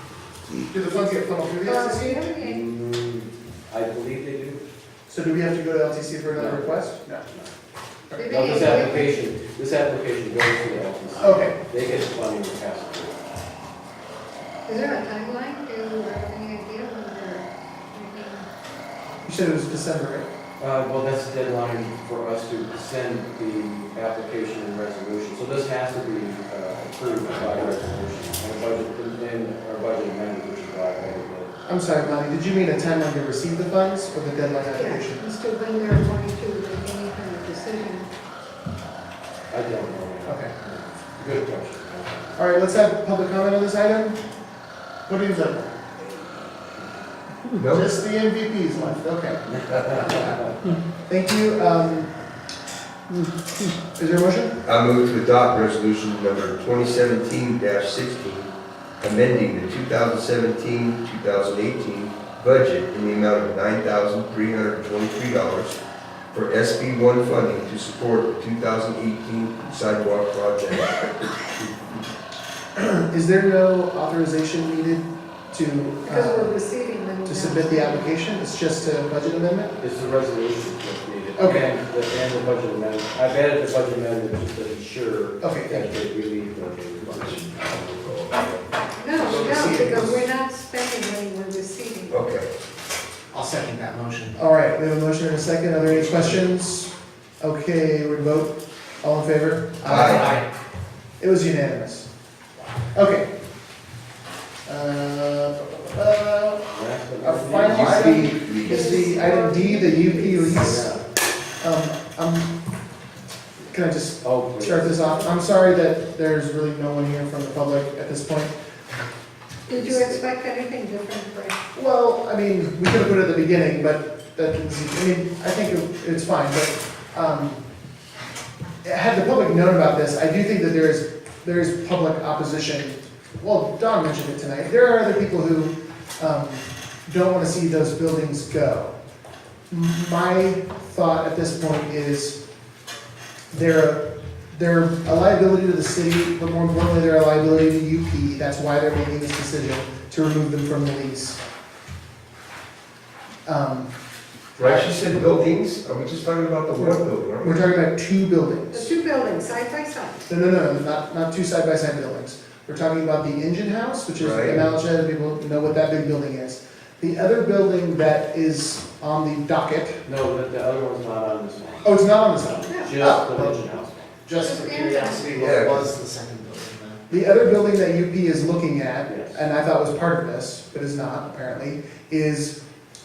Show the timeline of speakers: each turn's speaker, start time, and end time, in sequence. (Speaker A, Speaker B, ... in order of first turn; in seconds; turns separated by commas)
Speaker A: 0.6-2.2, Speaker B: 1.6-2.6, Speaker C: 2.4-4.6, Speaker A: 5.1-7.2, Speaker C: 6.3-7.5, Speaker A: 8.1-8.8, Speaker B: 8.1-9.2, Speaker C: 8.3-13.2, Speaker A: 11.2-11.6, Speaker B: 14.7-18.5, Speaker A: 19.2-20.3, Speaker C: 20.6-31.5, Speaker A: 31.6-35.2, Speaker B: 34.7-38.1, Speaker C: 39.5-42.5, Speaker A: 40.2-40.5, Speaker A: 42.4-44.2, Speaker A: 45.1-45.7, Speaker D: 47.5-47.9, Speaker A: 47.7-52.1, Speaker C: 49.5-50.5, Speaker A: 53.8-54.6, Speaker D: 54.6-65.8, Speaker D: 66.3-72.1, Speaker A: 72.8-76.6, Speaker B: 76.0-78.1, Speaker A: 77.2-79.7, Speaker C: 79.8-88.4, Speaker A: 81.4-81.7, Speaker A: 85.4-85.9, Speaker D: 87.0-88.5, Speaker B: 88.9-92.2, Speaker A: 89.1-90.2, Speaker D: 92.1-92.5, Speaker E: 93.3-94.3, Speaker A: 94.3-100.4, Speaker D: 99.8-100.4, Speaker E: 100.0-100.4, Speaker A: 101.2-102.1, Speaker A: 102.9-103.3, Speaker A: 104.7-106.7, Speaker C: 106.7-108.0, Speaker A: 107.2-110.9, Speaker D: 107.7-109.0, Speaker B: 108.2-110.8, Speaker C: 110.5-111.0, Speaker A: 111.6-112.5, Speaker A: 113.7-118.5, Speaker C: 114.2-115.3, Speaker B: 119.7-121.6, Speaker A: 121.7-127.6, Speaker A: 128.8-138.9, Speaker A: 139.7-142.4, Speaker A: 143.5-151.4, Speaker A: 153.4-153.9, Speaker D: 154.6-157.6, Speaker A: 154.6-155.0, Speaker A: 156.7-158.9, Speaker B: 158.7-160.3, Speaker A: 160.3-170.0, Speaker D: 164.2-164.7, Speaker C: 170.1-174.2, Speaker A: 171.8-173.6, Speaker E: 174.2-177.0, Speaker B: 174.3-175.4, Speaker D: 175.4-175.9, Speaker A: 177.1-182.6, Speaker C: 179.1-179.4